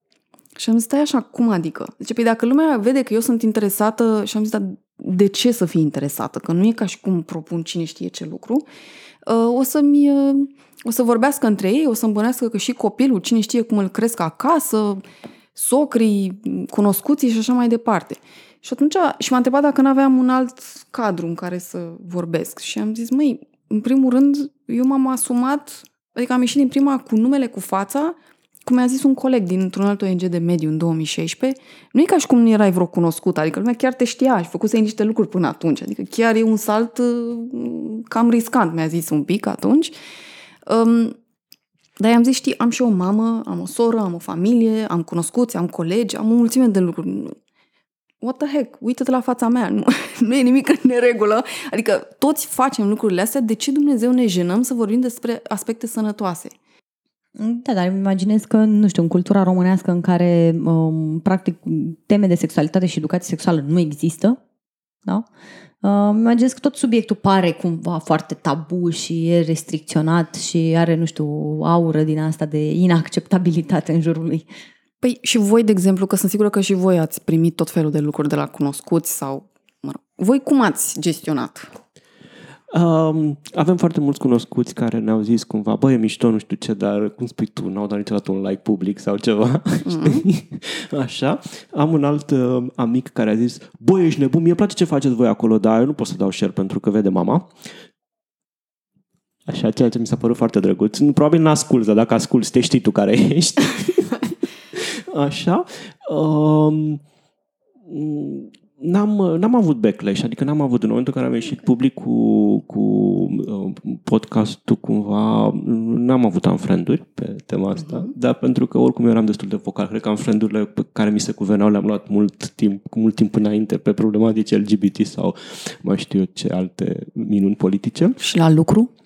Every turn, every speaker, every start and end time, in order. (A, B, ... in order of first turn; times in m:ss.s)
0:00.6-0:08.6 A
0:09.2-0:15.0 A
0:15.6-0:39.9 A
0:40.7-0:41.2 A
0:42.0-0:47.4 A
0:48.2-0:56.5 A
0:57.4-1:04.4 B
1:05.8-1:14.4 B
1:15.0-1:21.7 A
1:22.7-1:37.5 C
1:29.8-1:30.2 A
1:39.4-1:47.0 C
1:47.8-2:08.2 C
2:08.2-2:08.9 A